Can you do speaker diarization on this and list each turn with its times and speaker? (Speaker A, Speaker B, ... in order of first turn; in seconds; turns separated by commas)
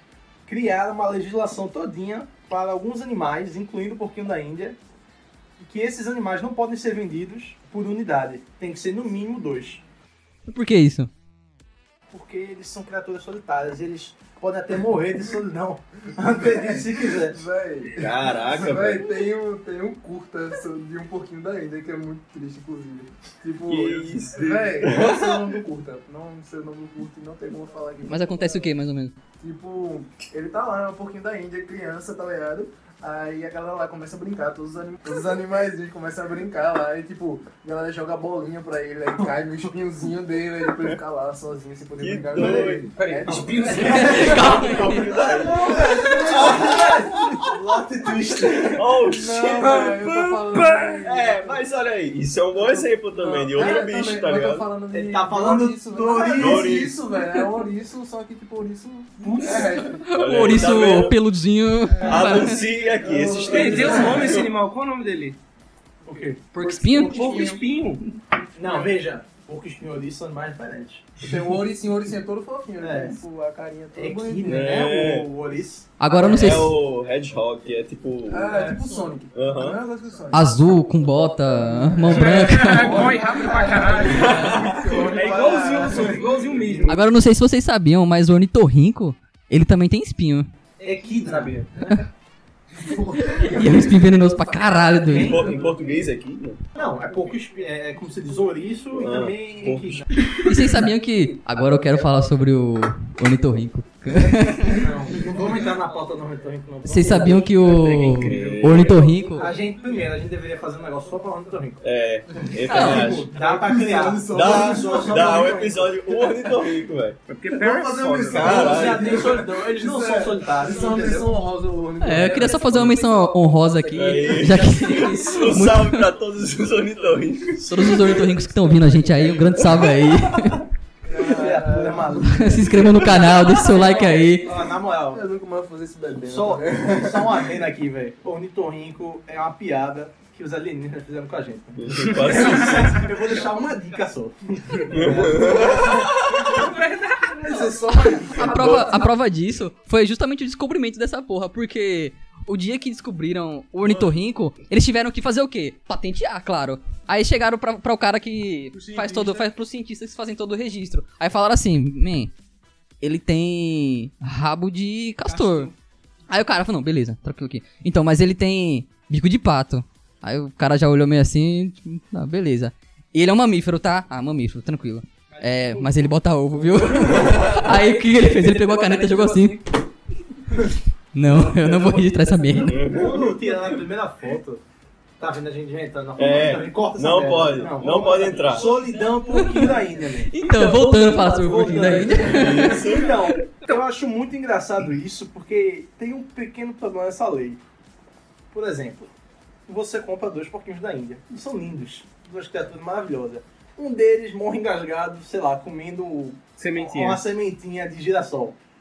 Speaker A: 0.5-4.8, Speaker A: 5.6-9.8, Speaker B: 10.5-11.1, Speaker A: 12.1-17.4, Speaker C: 16.2-28.7, Speaker D: 18.0-19.1, Speaker D: 23.7-25.4, Speaker B: 28.1-29.2, Speaker C: 29.4-44.1, Speaker D: 42.0-42.9, Speaker E: 42.4-44.5, Speaker A: 43.3-49.0, Speaker B: 43.8-45.1, Speaker D: 44.0-47.5, Speaker C: 44.9-47.4, Speaker D: 48.8-54.7, Speaker C: 49.0-51.6, Speaker C: 52.6-60.0, Speaker A: 54.9-56.9, Speaker D: 56.3-57.0, Speaker E: 59.2-59.9, Speaker B: 60.0-62.6, Speaker D: 60.1-61.2, Speaker D: 62.0-64.5, Speaker A: 62.0-62.5, Speaker C: 62.9-64.4, Speaker A: 63.3-64.3, Speaker E: 63.5-65.4, Speaker A: 66.0-67.6, Speaker C: 66.1-66.3, Speaker B: 66.5-67.4, Speaker E: 66.9-68.0, Speaker C: 67.2-67.6, Speaker A: 68.6-71.2, Speaker C: 71.2-74.9, Speaker A: 72.8-73.2, Speaker A: 74.0-76.7, Speaker D: 74.5-75.3, Speaker B: 76.0-76.8, Speaker D: 76.1-78.6, Speaker C: 78.3-80.7, Speaker D: 79.3-79.8, Speaker B: 80.3-83.1, Speaker C: 81.7-86.3, Speaker E: 82.1-87.0, Speaker A: 83.9-84.2, Speaker D: 84.1-85.1, Speaker A: 85.8-86.8, Speaker B: 86.9-90.5, Speaker A: 90.8-92.0, Speaker E: 90.8-91.6, Speaker C: 92.8-94.3, Speaker B: 93.3-95.4, Speaker A: 95.0-95.8, Speaker D: 95.1-96.6, Speaker A: 96.8-100.1, Speaker D: 98.9-100.8, Speaker B: 100.5-104.8, Speaker D: 101.7-102.1, Speaker A: 104.7-107.5, Speaker B: 106.8-109.5, Speaker D: 107.3-109.2, Speaker E: 108.0-109.9, Speaker A: 109.4-111.8, Speaker D: 111.8-113.4, Speaker C: 112.4-115.6, Speaker B: 112.7-113.1, Speaker A: 112.7-116.4, Speaker D: 114.3-117.2, Speaker E: 117.3-118.7, Speaker C: 117.5-123.2, Speaker D: 118.3-119.4, Speaker A: 118.4-121.5, Speaker B: 122.0-126.1, Speaker D: 123.9-128.4, Speaker B: 127.6-130.7, Speaker D: 129.2-130.1, Speaker C: 131.1-133.2, Speaker A: 131.1-135.2, Speaker B: 132.2-134.5, Speaker C: 135.1-137.6, Speaker A: 136.2-146.7, Speaker D: 141.8-143.0, Speaker E: 142.4-142.9, Speaker D: 144.9-146.7, Speaker E: 146.4-147.4, Speaker A: 147.4-149.1, Speaker C: 147.5-148.5, Speaker B: 147.9-162.3, Speaker D: 148.4-149.0, Speaker D: 153.8-154.1, Speaker A: 158.8-159.4, Speaker B: 163.0-165.7, Speaker A: 165.2-165.8, Speaker B: 166.3-179.6, Speaker A: 175.3-176.1, Speaker A: 176.9-177.5, Speaker D: 177.0-177.7, Speaker A: 178.2-179.5, Speaker B: 181.1-182.8, Speaker D: 181.3-183.8, Speaker A: 182.8-184.6, Speaker A: 185.2-197.6, Speaker D: 186.2-188.9, Speaker E: 188.5-189.8, Speaker B: 189.3-189.8, Speaker B: 190.3-192.8, Speaker D: 190.4-193.5, Speaker A: 198.5-199.1, Speaker A: 199.7-208.6, Speaker E: 206.6-207.2